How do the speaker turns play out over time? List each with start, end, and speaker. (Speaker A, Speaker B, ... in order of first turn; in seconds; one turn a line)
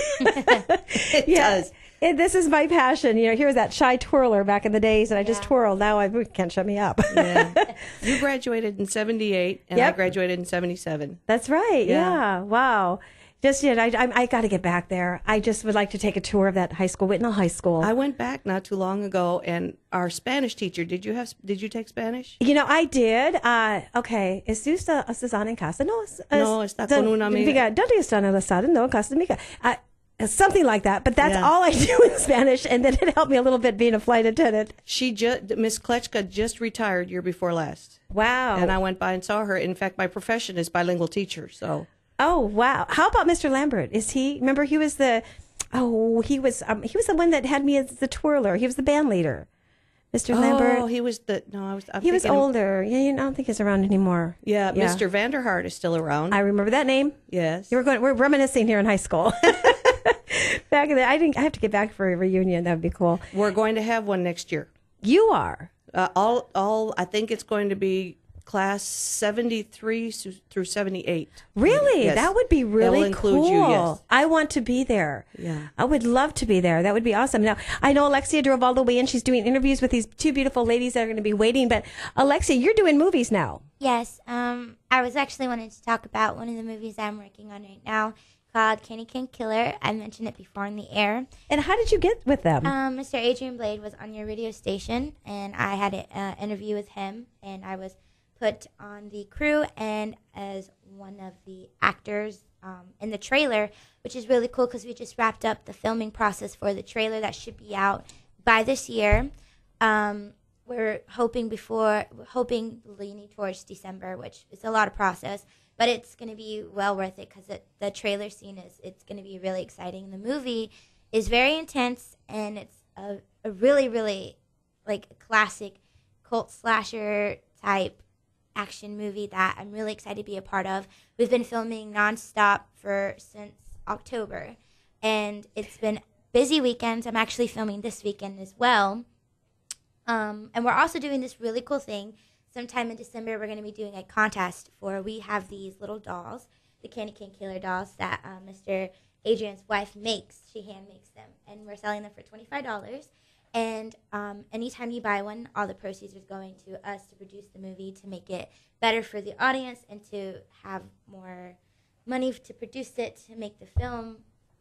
Speaker A: 0.2-7.6
Speaker B: 1.1-1.7
Speaker C: 5.2-5.4
Speaker B: 7.1-11.2
Speaker A: 11.3-17.9
Speaker B: 11.8-12.2
Speaker B: 17.8-22.4
Speaker A: 22.4-34.7
Speaker B: 26.3-27.6
Speaker B: 31.2-31.5
Speaker B: 34.9-38.0
Speaker A: 38.1-38.7
Speaker B: 38.5-41.9
Speaker A: 42.2-49.5
Speaker A: 50.1-50.9
Speaker B: 50.3-52.5
Speaker A: 52.0-55.0
Speaker B: 54.4-56.4
Speaker A: 56.3-57.2
Speaker B: 57.3-57.7
Speaker A: 57.7-63.2
Speaker B: 63.3-64.7
Speaker A: 65.0-65.7
Speaker B: 65.9-74.0
Speaker A: 71.5-83.6
Speaker B: 75.3-75.7
Speaker C: 83.8-91.3
Speaker A: 91.5-92.7
Speaker C: 92.6-128.0
Speaker C: 128.6-139.0
Speaker C: 140.1-161.6
Speaker C: 162.1-164.2